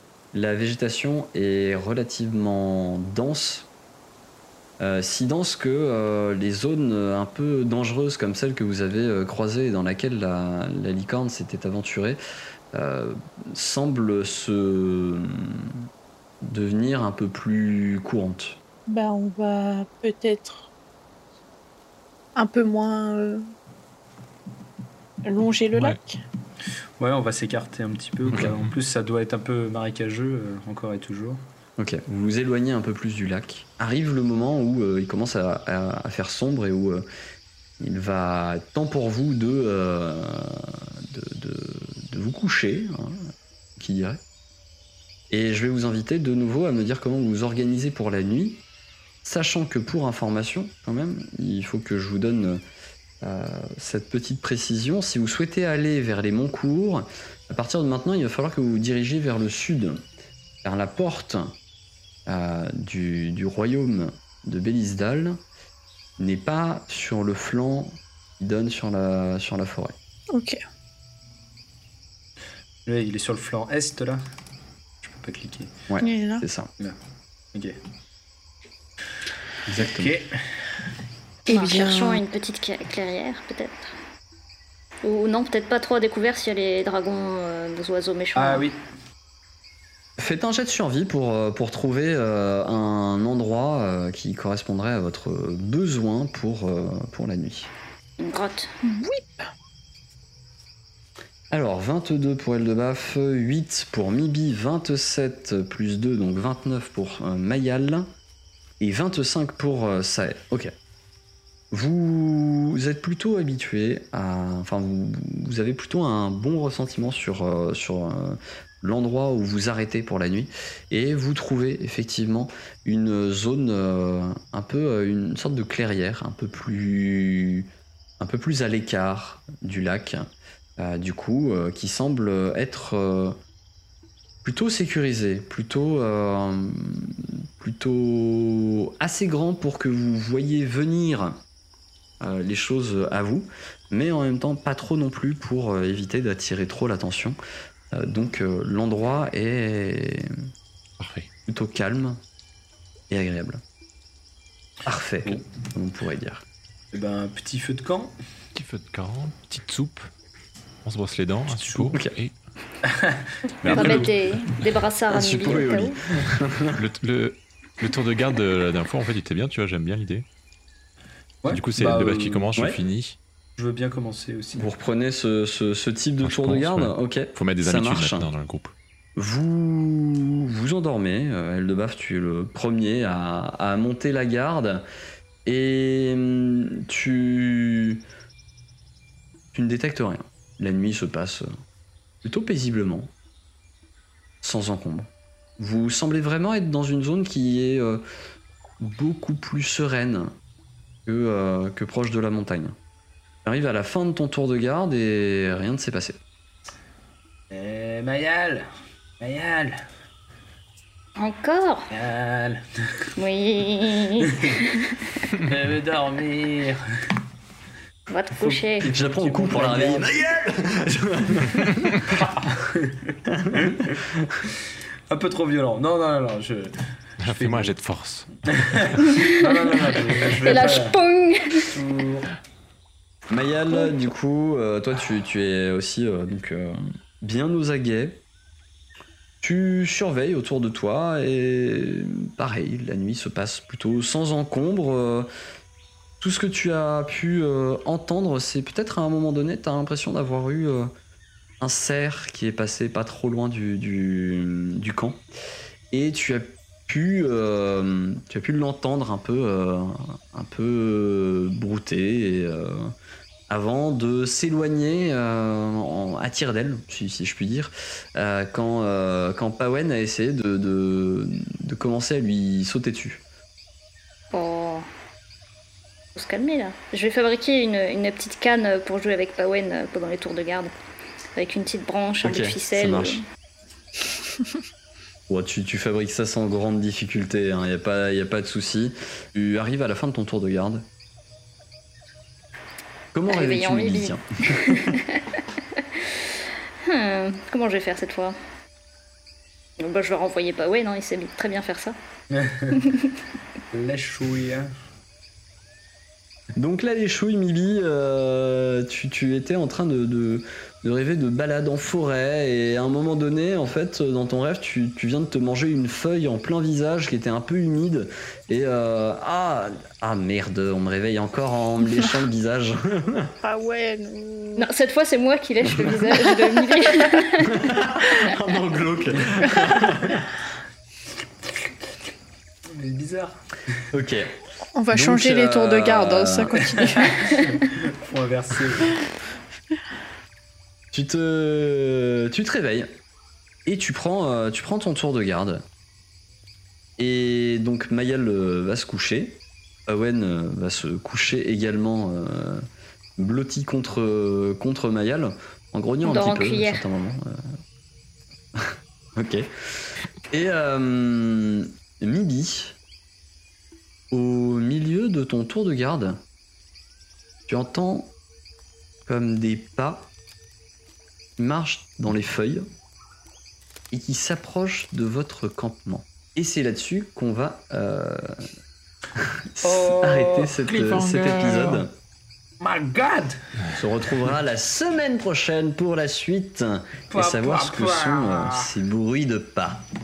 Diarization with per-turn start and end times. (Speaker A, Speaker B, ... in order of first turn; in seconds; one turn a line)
Speaker A: 0.3-3.7
Speaker A: 4.8-12.2
Speaker A: 12.7-15.7
Speaker A: 16.4-18.6
Speaker B: 18.9-20.7
Speaker B: 22.4-23.4
Speaker B: 25.2-26.2
Speaker C: 27.0-31.4
Speaker D: 28.3-28.7
Speaker A: 31.8-37.0
Speaker A: 37.8-44.2
Speaker A: 45.3-48.6
Speaker A: 49.2-52.6
Speaker A: 53.2-60.0
Speaker A: 60.6-61.5
Speaker A: 62.3-65.4
Speaker A: 66.2-70.0
Speaker B: 70.3-70.6
Speaker C: 72.9-74.2
Speaker C: 75.0-75.7
Speaker A: 75.9-76.7
Speaker B: 76.0-76.5
Speaker A: 79.7-80.1
Speaker C: 79.8-80.8
Speaker B: 81.5-82.2
Speaker E: 81.5-83.9
Speaker E: 85.0-88.7
Speaker C: 88.3-88.8
Speaker A: 90.2-97.7
Speaker E: 98.2-98.7
Speaker B: 98.8-99.5
Speaker A: 101.5-108.1
Speaker A: 108.8-110.7
Speaker A: 111.7-133.4
Speaker A: 134.4-141.4
Speaker A: 142.2-147.4
Speaker A: 147.9-150.3
Speaker D: 151.0-151.3
Speaker A: 151.5-152.2
Speaker A: 153.1-153.6
Speaker A: 154.9-156.4
Speaker C: 156.9-158.1
Speaker D: 158.6-160.1
Speaker D: 160.8-162.4
Speaker C: 161.5-161.9
Speaker C: 162.8-164.1
Speaker E: 163.7-166.0
Speaker A: 163.7-163.9
Speaker D: 163.7-164.0
Speaker A: 165.1-166.8
Speaker D: 166.8-170.2
Speaker C: 171.4-172.5
Speaker D: 171.5-173.2
Speaker A: 172.6-172.8
Speaker C: 173.6-174.7
Speaker A: 174.6-178.3
Speaker D: 176.2-178.7
Speaker A: 179.2-184.8
Speaker A: 185.4-188.0
Speaker A: 189.5-191.5
Speaker A: 192.2-193.1
Speaker A: 194.4-198.0
Speaker A: 198.8-200.3
Speaker A: 201.1-202.8
Speaker A: 203.4-206.2
Speaker C: 207.5-208.7
Speaker C: 209.2-209.8
Speaker E: 211.2-211.9
Speaker C: 211.9-213.1
Speaker E: 213.2-215.0
Speaker C: 215.4-216.8
Speaker E: 218.1-218.9
Speaker C: 218.4-220.1
Speaker A: 218.9-222.2
Speaker C: 222.1-223.9
Speaker A: 223.3-224.3
Speaker C: 225.1-226.8
Speaker D: 227.2-228.3
Speaker C: 227.3-227.7
Speaker C: 228.5-231.0
Speaker E: 229.1-229.5
Speaker E: 230.4-231.7
Speaker C: 231.7-232.3
Speaker A: 233.3-238.2
Speaker A: 239.4-245.3
Speaker A: 246.2-250.9
Speaker A: 251.6-255.2
Speaker A: 255.9-262.9
Speaker A: 263.5-273.2
Speaker E: 274.3-274.9
Speaker E: 276.1-280.7
Speaker E: 281.4-283.2
Speaker A: 282.2-283.2
Speaker A: 285.3-290.8
Speaker A: 293.1-295.0
Speaker E: 293.3-296.3
Speaker E: 296.8-298.4
Speaker E: 299.8-301.9
Speaker C: 302.3-302.8
Speaker E: 302.8-303.1
Speaker C: 303.7-304.7
Speaker A: 306.6-323.3
Speaker B: 323.4-324.7
Speaker E: 324.6-328.2
Speaker B: 326.4-327.1
Speaker A: 327.4-330.3
Speaker C: 332.7-333.9
Speaker A: 333.9-334.4
Speaker B: 334.7-337.6
Speaker A: 334.9-336.7
Speaker C: 336.6-339.0
Speaker A: 340.9-342.9
Speaker A: 343.6-345.6
Speaker A: 347.0-352.6
Speaker A: 353.2-357.6
Speaker E: 356.0-356.9
Speaker A: 358.6-359.5
Speaker A: 360.3-362.8
Speaker A: 364.1-366.2
Speaker A: 367.5-368.1
Speaker A: 369.1-370.1
Speaker A: 371.4-372.6
Speaker A: 373.9-378.5
Speaker A: 379.2-381.9
Speaker C: 379.6-381.9
Speaker C: 382.6-383.4
Speaker A: 383.7-389.8
Speaker C: 387.1-388.7